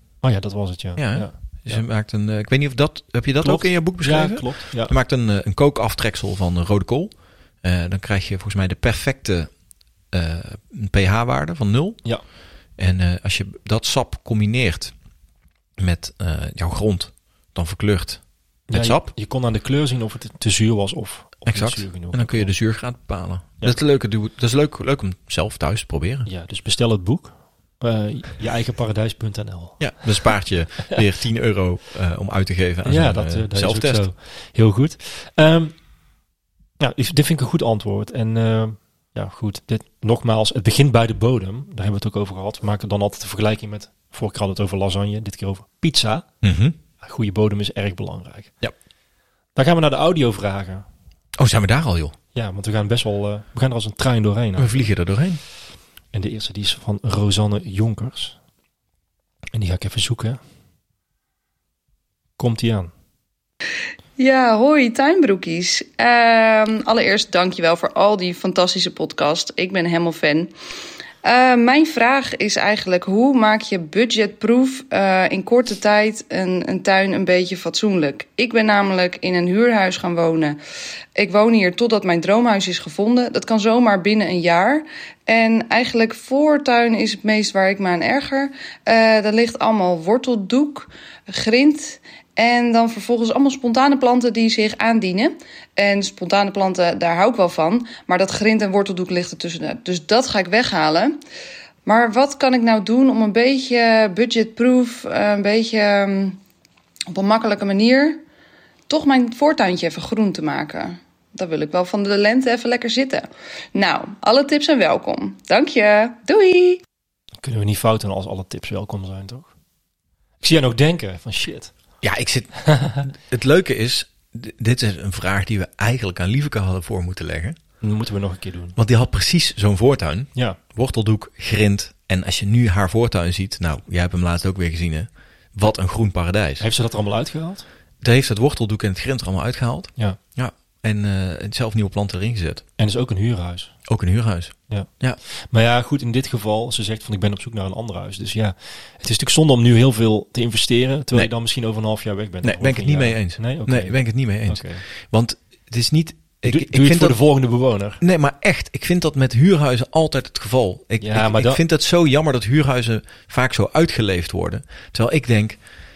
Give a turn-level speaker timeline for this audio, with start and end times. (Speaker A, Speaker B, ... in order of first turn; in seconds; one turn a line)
Speaker A: 0.2-1.8
Speaker B: 1.0-9.5
Speaker A: 3.4-4.9
Speaker B: 10.1-12.0
Speaker B: 12.8-14.9
Speaker B: 15.8-19.1
Speaker A: 18.7-22.5
Speaker B: 21.4-26.3
Speaker A: 26.2-29.9
Speaker B: 29.8-34.1
Speaker A: 32.8-35.7
Speaker A: 36.8-46.3
Speaker B: 46.4-46.8
Speaker A: 47.0-48.5
Speaker A: 49.5-50.8
Speaker B: 51.4-52.1
Speaker A: 52.3-54.8
Speaker B: 54.6-55.4
Speaker A: 56.1-58.4
Speaker A: 59.5-60.4
Speaker A: 62.4-62.9
Speaker C: 64.2-70.5
Speaker C: 71.2-80.6
Speaker C: 81.2-101.2
Speaker C: 101.8-106.4
Speaker C: 107.1-108.2
Speaker C: 108.9-116.8
Speaker A: 117.4-119.5
Speaker A: 120.4-121.7
Speaker B: 122.0-127.5
Speaker A: 122.7-123.0
Speaker A: 127.8-128.8
Speaker B: 128.8-136.7
Speaker A: 136.6-137.7
Speaker B: 138.0-142.6
Speaker A: 142.8-143.7
Speaker B: 143.9-145.2
Speaker A: 144.7-154.8
Speaker B: 152.4-157.2
Speaker A: 156.4-158.0
Speaker B: 158.0-165.6
Speaker A: 161.0-161.6